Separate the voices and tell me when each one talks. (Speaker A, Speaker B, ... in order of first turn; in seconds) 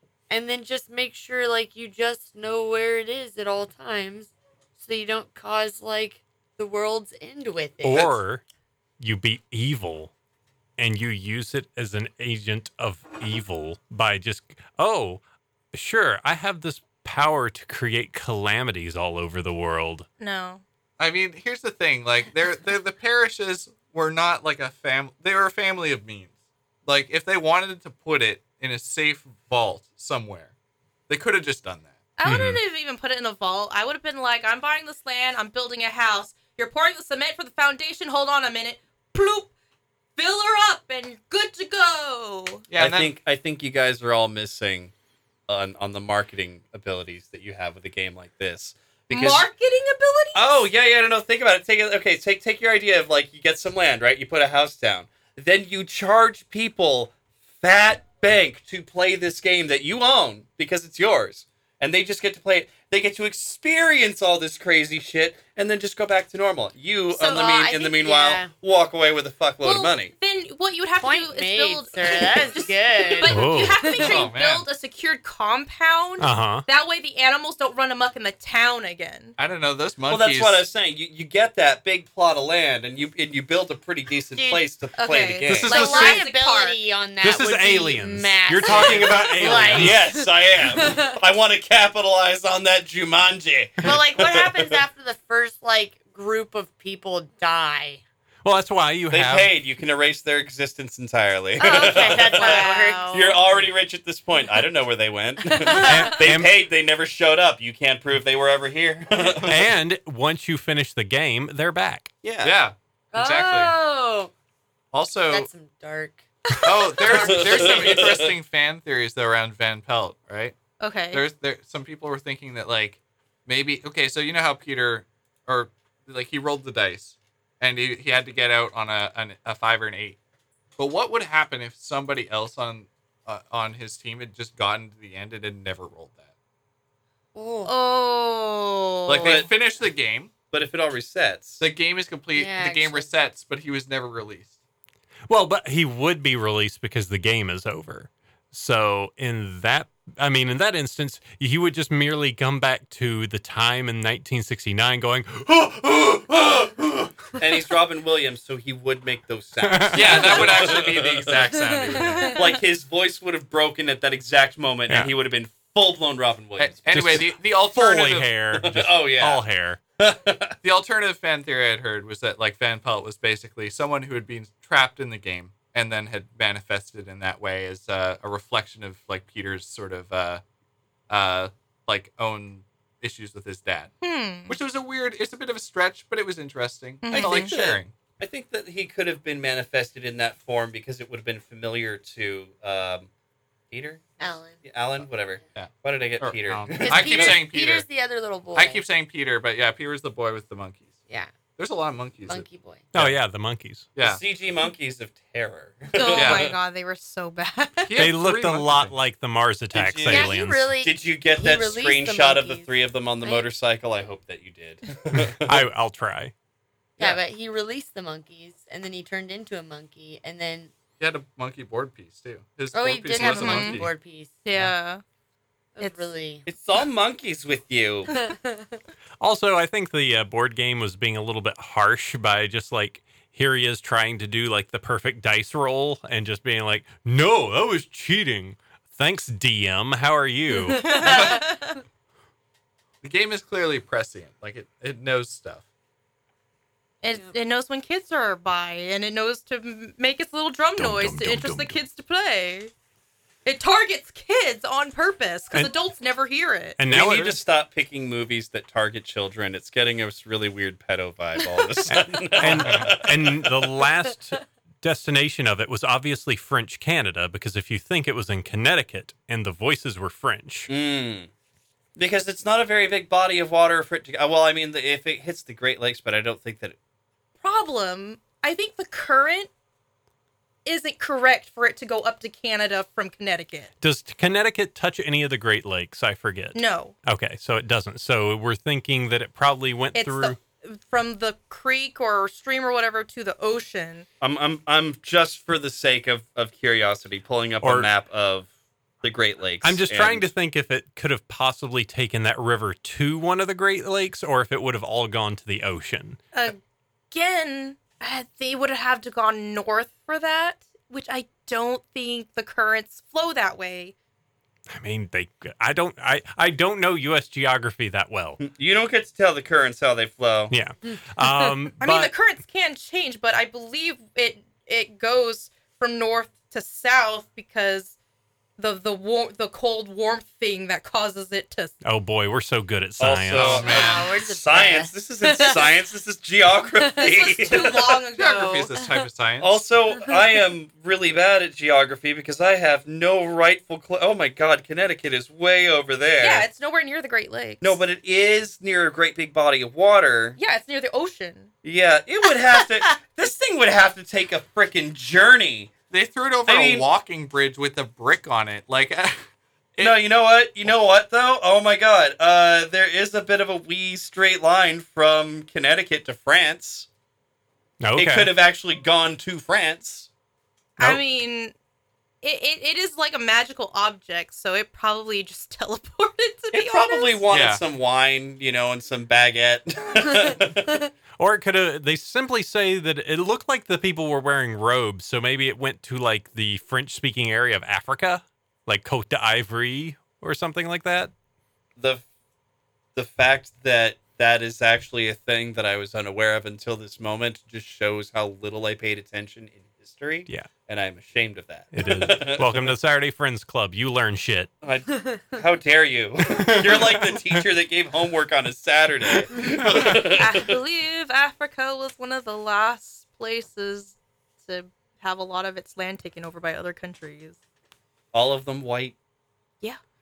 Speaker A: 0.3-8.2, 67.2-68.5, 71.0-74.1, 84.3-84.6, 85.7-91.1, 93.8-98.0, 101.6-103.5, 105.5-106.2, 113.1-114.3, 115.3-118.1, 137.3-137.7, 142.3-143.1, 194.2-194.6, 196.8-198.8, 202.3-202.9, 210.1-212.7, 213.2-213.5, 217.0-220.7, 222.7-224.4, 225.8-226.5, 228.1-228.8, 240.7-241.6, 320.9-321.5, 333.6-335.8
Speaker B: 7.8-8.4, 9.0-10.1, 10.8-15.2, 15.7-20.1, 32.2-32.6, 73.3-73.9, 76.2-76.7, 85.5-86.2, 87.2-90.0, 98.4-99.5, 105.8-106.5, 109.5-112.1, 145.3-157.3, 159.6-160.3, 164.9-165.1, 166.9-169.8, 202.9-203.9, 208.0-210.8, 215.1-216.3, 229.2-241.3, 250.8-251.8, 256.8-257.4, 261.9-270.7, 283.8-290.4, 297.6-297.9, 299.6-306.2, 314.7-318.4, 320.5-322.1, 331.8-333.7, 367.8-368.3, 381.2-391.1, 400.3-400.5, 401.7-404.5, 406.2-407.4, 409.6-410.0
Speaker C: 20.2-20.6, 32.2-39.5, 40.2-42.6, 49.1-50.7, 67.1-67.7, 69.6-79.4, 85.0-86.8, 88.7-89.1, 102.3-103.2, 120.8-121.2, 137.7-139.4, 184.0-184.6, 187.0-187.5, 205.9-207.9, 223.2-223.8, 224.4-225.0, 225.8-226.1, 240.7-241.8, 247.0-252.7, 253.4-256.8, 277.4-279.5, 280.6-283.7, 286.5-286.9, 289.9-294.1, 306.3-306.6, 307.1-313.9, 321.8-328.0, 328.6-331.7, 337.0-338.7, 346.2-347.8, 350.4-351.5, 370.8-371.5, 372.2-377.2, 410.1-417.4
Speaker D: 21.0-26.3, 26.9-30.5, 31.1-31.9, 42.7-43.1, 74.0-74.7, 79.4-80.7, 112.4-113.8, 114.9-115.5, 116.6-120.6, 121.1-130.2, 130.8-136.3, 139.1-140.3, 141.6-144.6, 159.9-162.4, 166.6-168.3, 170.6-180.4, 181.1-183.9, 184.5-187.9, 195.6-197.9, 198.6-200.9, 201.6-202.5, 204.0-204.2, 206.2-206.5, 207.8-208.9, 221.0-223.9, 241.1-241.4, 243.0-245.6, 256.9-257.3, 262.5-263.0, 333.3-334.1, 338.1-339.6, 355.9-359.2, 377.3-377.6
Speaker E: 42.8-44.9, 45.5-49.5, 50.4-70.1, 80.1-85.8, 88.8-94.8, 99.1-109.6, 112.2-112.6, 117.1-118.3, 139.2-139.5, 140.5-141.6, 157.4-161.4, 162.1-167.2, 168.6-169.4, 170.0-170.6, 187.1-193.1, 193.7-197.4, 204.0-206.5, 209.7-215.7, 226.5-228.1, 256.9-263.6, 270.7-271.3, 272.0-276.8, 294.2-298.5, 299.0-300.3, 318.4-320.5, 333.0-337.8, 339.4-346.5, 347.6-350.4, 351.6-355.7, 356.5-356.9, 359.8-366.9, 368.0-370.1, 376.5-380.9, 391.8-392.1, 392.9-402.8, 404.6-410.4, 418.1-418.9